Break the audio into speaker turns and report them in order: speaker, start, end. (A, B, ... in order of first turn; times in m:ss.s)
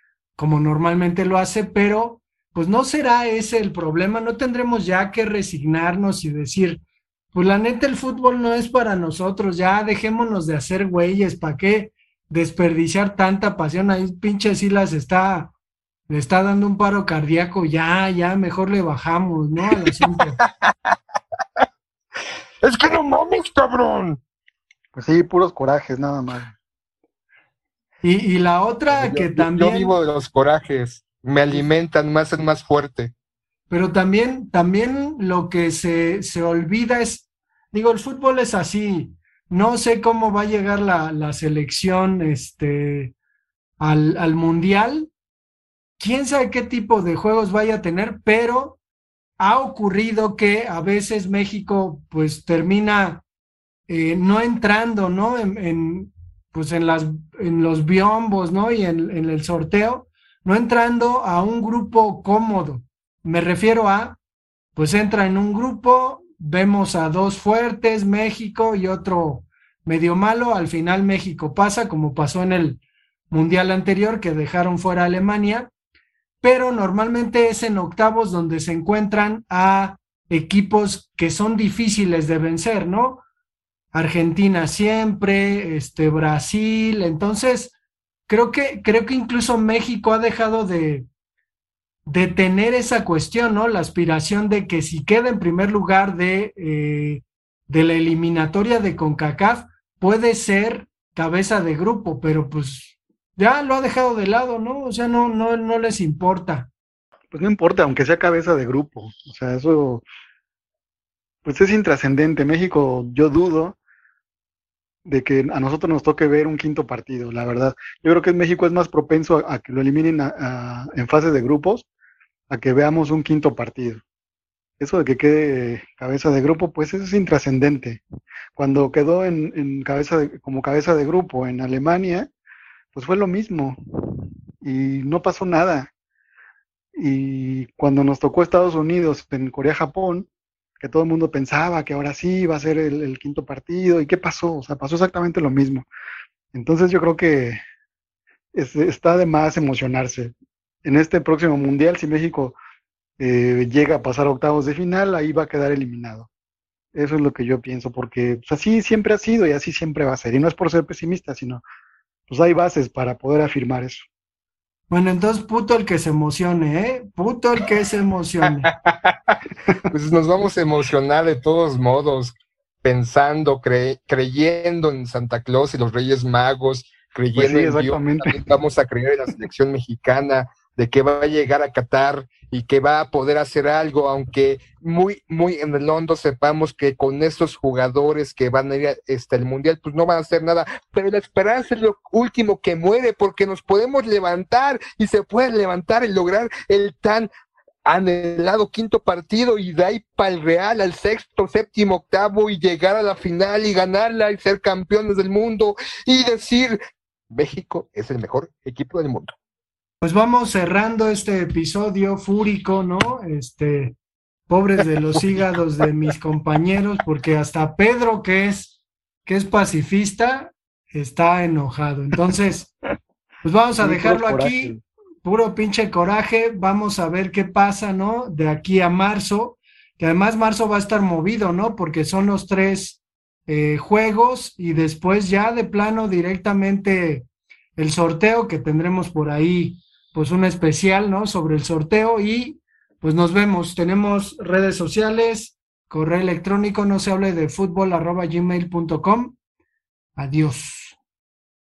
0:00.4-0:06.8 A
0:07.3-0:15.5 A
0:16.1-0:20.4 A
0:20.4-0:20.9 B
0:22.6-0:24.2 B
0:24.9-0:26.5 C
0:28.0-0:30.0 A
0:28.9-0:33.1 B
0:33.7-0:43.1 A
0:43.8-0:45.1 A
0:46.0-0:48.8 A
0:49.4-0:53.2 A
0:53.9-1:04.2 A
1:04.8-1:12.8 A
1:13.3-1:15.7 A
1:16.4-1:23.2 A
1:23.9-1:27.7 A
1:28.3-1:31.1 A
1:32.0-1:46.7 A
1:47.3-1:50.0 C
1:51.4-1:53.8 C
1:55.0-2:01.8 C
2:02.5-2:04.0 C
2:04.8-2:08.0 C
2:08.6-2:12.3 C
2:12.9-2:13.8 C
2:14.6-2:15.9 C
2:17.0-2:20.3 C
2:20.8-2:25.8 C
2:26.5-2:27.6 C
2:28.5-2:30.3 C
2:30.8-2:32.6 C
2:33.2-2:36.3 C
2:36.9-2:41.6 C
2:42.3-2:44.0 C
2:44.9-2:48.7 A
2:48.7-2:49.4 B
2:49.9-3:17.3 B
2:57.3-2:58.5 C
3:17.8-3:26.8 B
3:27.3-3:29.3 B
3:30.0-3:34.0 A
3:34.5-3:38.7 A
3:39.2-3:42.7 A
3:43.4-4:09.4 A
3:43.8-3:44.8 C
4:10.2-4:11.0 A